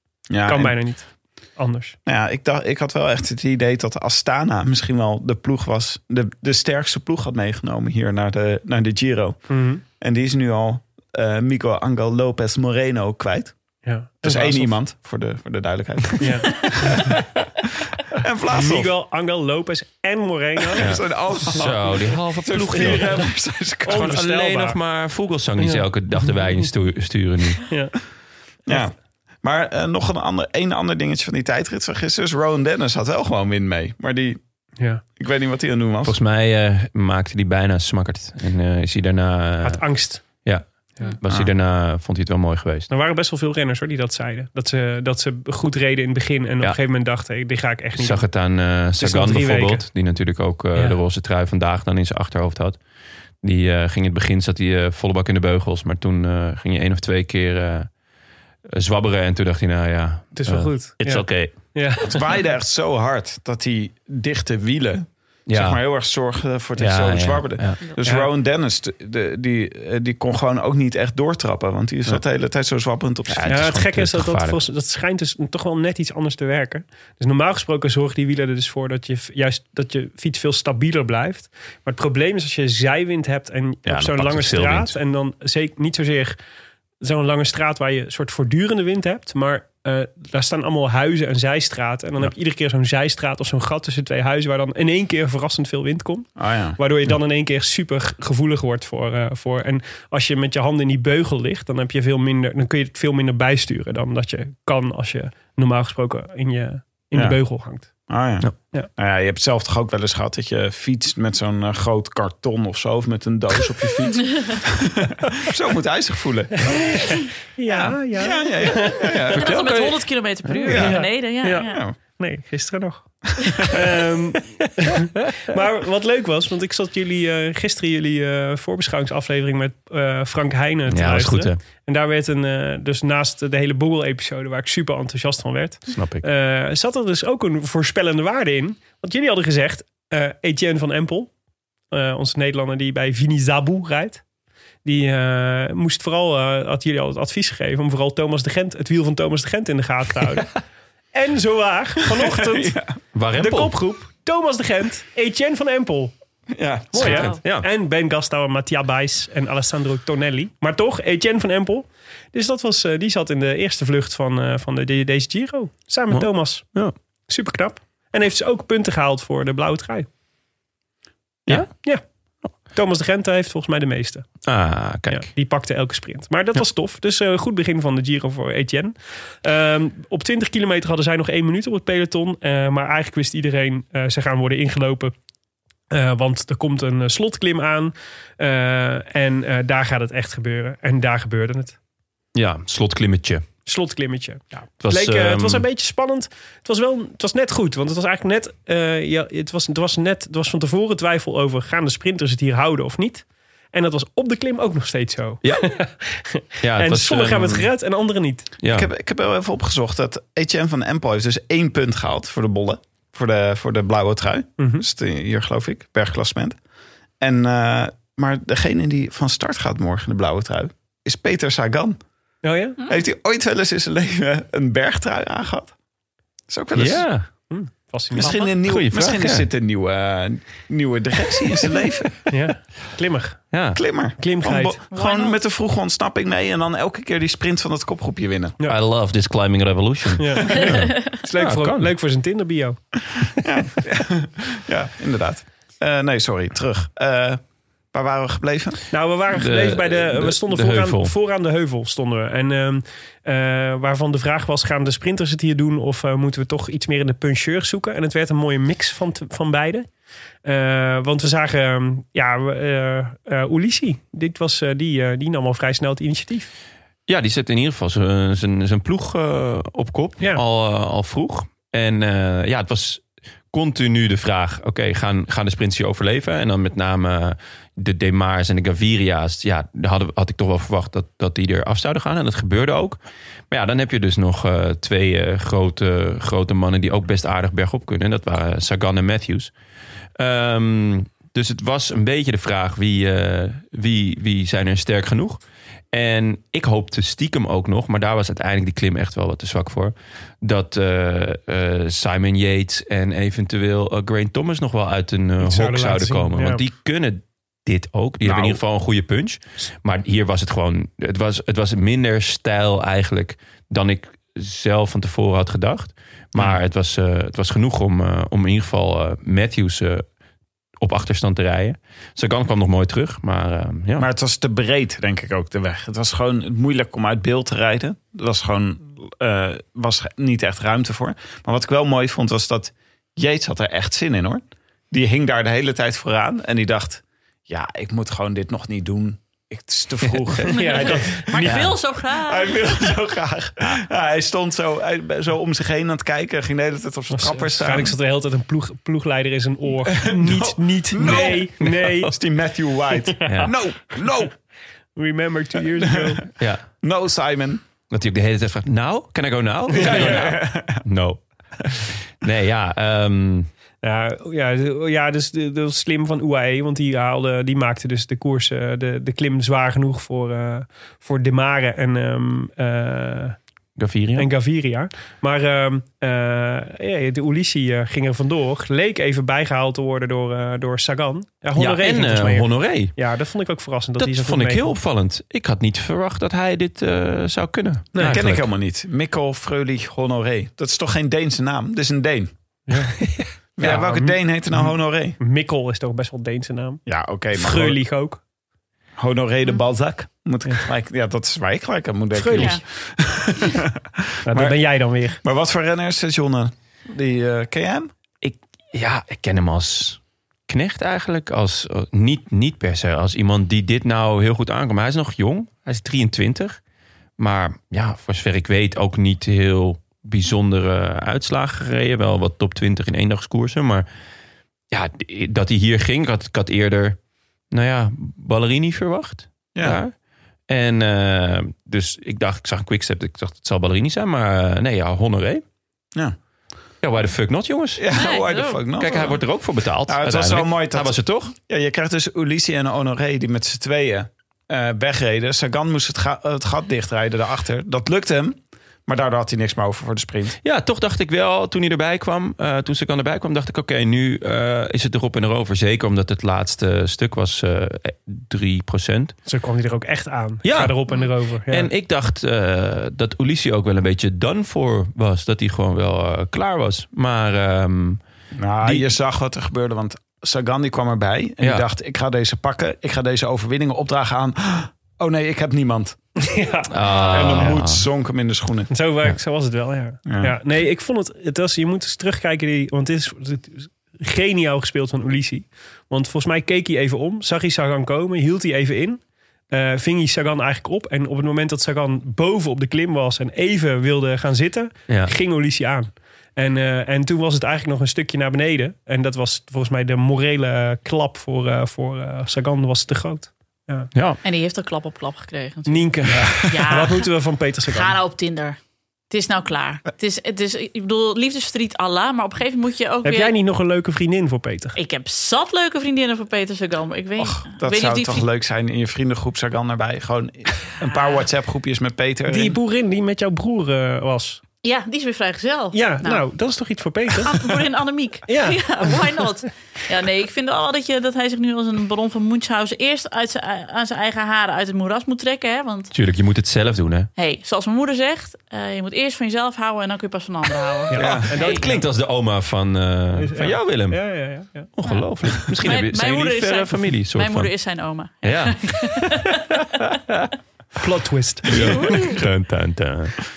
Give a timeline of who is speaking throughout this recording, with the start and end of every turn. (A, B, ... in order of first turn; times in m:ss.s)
0:00.3-0:00.8 A
0:00.4-0:02.0 B
0:02.1-0:13.6 A
0:09.5-0:09.8 B
0:13.8-0:14.8 B
0:14.2-0:17.2 A
0:16.2-0:17.1 B
0:18.1-0:18.9 A
0:18.5-0:20.9 B
0:20.8-0:24.2 A
0:20.8-0:23.3 C
0:22.7-0:23.2 B
0:23.8-0:24.8 B
0:23.9-0:27.7 C
0:25.6-0:26.4 B
0:27.7-0:28.0 B
0:28.7-0:34.4 A
0:35.2-0:36.2 A
0:36.0-0:42.9 C
0:39.6-0:40.2 B
0:42.9-0:48.3 B
0:48.0-0:52.8 C
0:49.0-0:49.9 B
0:50.7-0:51.0 B
0:53.4-0:57.9 C
0:58.7-1:01.8 C
1:00.3-1:02.2 B
1:02.0-1:13.7 A
1:05.5-1:05.8 C
1:06.8-1:07.8 C
1:08.0-1:08.3 B
1:13.3-1:14.6 C
1:13.5-1:26.4 B
1:23.9-1:25.0 C
1:27.0-1:47.9 B
1:36.4-1:36.8 A
1:47.1-1:47.4 A
1:48.1-1:59.7 A
1:57.6-1:59.1 B
1:59.3-2:01.8 D
1:59.3-2:00.0 C
2:00.7-2:02.0 A
2:00.7-2:21.3 B
2:10.9-2:11.6 C
2:15.9-2:16.2 C
2:21.9-2:24.2 B
2:24.8-2:30.5 B
2:31.1-2:32.8 B
2:32.2-2:33.0 A
2:33.1-2:33.8 C
2:33.4-2:36.1 B
2:36.5-2:37.3 A
2:36.9-2:46.7 B
2:37.0-2:37.4 D
2:37.1-2:37.7 C
2:46.1-2:46.9 C
2:47.3-2:50.1 B
2:51.5-2:51.7 C
2:51.5-2:52.0 B
2:52.6-2:54.3 B
2:54.4-2:55.3 C
2:55.1-3:05.1 B
3:05.9-3:11.8 B
3:12.4-3:13.4 C
3:13.6-3:28.5 B
3:14.8-3:15.6 C
3:25.4-3:25.8 C
3:26.6-3:27.7 C
3:28.6-3:28.9 C
3:28.7-3:36.6 A
3:34.6-3:34.8 B
3:37.2-3:42.0 A
3:42.4-3:42.8 B
3:42.9-3:45.7 A
3:46.5-3:47.1 A
3:46.8-3:47.3 C
3:47.5-3:48.4 B
3:48.1-3:52.1 A
3:48.6-3:49.5 C
3:52.3-3:53.4 B
3:53.5-3:53.8 C
3:53.7-3:58.6 A
3:54.2-3:54.8 B
3:54.9-3:55.4 D
3:58.6-4:01.9 C
4:00.2-4:02.8 B
4:03.3-4:08.8 A
4:08.9-4:19.9 B
4:09.3-4:11.1 C
4:20.4-4:26.5 B
4:27.1-4:43.0 C
4:43.5-4:49.5 C
4:50.2-5:20.0 C
5:05.4-5:06.6 B
5:08.2-5:08.6 A
5:20.8-5:24.1 C
5:24.0-5:41.2 A
5:40.4-5:41.6 B
5:40.5-5:42.9 D
5:41.4-5:41.8 C
5:42.2-5:48.0 A
5:47.1-5:52.1 B
5:49.8-5:54.3 A
5:51.0-5:51.9 C
5:53.3-5:53.5 B
5:53.3-5:53.6 C
5:55.0-5:56.2 B
5:55.8-5:56.2 A
5:56.4-5:56.7 C
5:56.8-5:57.6 A
5:57.9-6:03.5 C
5:59.7-6:00.8 A
5:59.7-6:00.3 B
6:03.8-6:13.4 B
6:13.8-6:14.3 C
6:14.2-6:24.7 B
6:21.6-6:23.0 C
6:24.0-6:28.5 C
6:27.9-6:28.2 B
6:28.0-6:32.3 A
6:32.7-6:36.8 B
6:33.6-6:35.2 A
6:36.9-6:37.8 A
6:37.3-6:38.2 B
6:39.0-6:44.6 A
6:42.2-6:42.6 B
6:42.4-6:42.6 D
6:44.2-6:45.2 B
6:45.2-6:47.9 A
6:48.2-6:56.6 C
6:57.2-7:03.9 C
7:04.7-7:07.0 C
7:07.5-7:10.0 C
7:09.6-7:09.8 A
7:10.5-7:15.4 C
7:16.8-7:17.8 C
7:17.8-7:19.2 A
7:17.9-7:19.0 D
7:18.8-7:21.3 C
7:19.9-7:30.4 A
7:30.4-7:39.2 C
7:39.3-7:41.7 B
7:40.4-7:48.0 C
7:48.4-7:56.0 A
7:56.2-7:56.7 B
7:56.7-7:57.9 C
7:57.0-7:58.7 A
7:58.7-8:23.9 B
8:00.1-8:00.4 A
8:23.9-8:24.2 C
8:24.2-8:27.1 D
8:25.7-8:28.0 B
8:27.7-8:28.6 D
8:29.1-8:33.3 D
8:33.0-8:34.8 B
8:34.8-8:38.2 D
8:37.2-8:42.6 A
8:40.8-8:41.3 D
8:42.3-8:44.4 B
8:44.6-8:46.2 D
8:45.7-8:47.4 B
8:47.2-8:55.9 D
8:48.3-8:48.9 B
8:55.9-8:57.1 C
8:57.2-9:01.6 D
9:00.9-9:01.9 B
9:01.0-9:04.1 C
9:01.0-9:01.3 A
9:03.2-9:04.7 B
9:04.8-9:07.5 C
9:04.8-9:09.6 D
9:08.2-9:10.3 C
9:10.8-9:11.9 B
9:11.5-9:13.2 C
9:11.5-9:12.1 D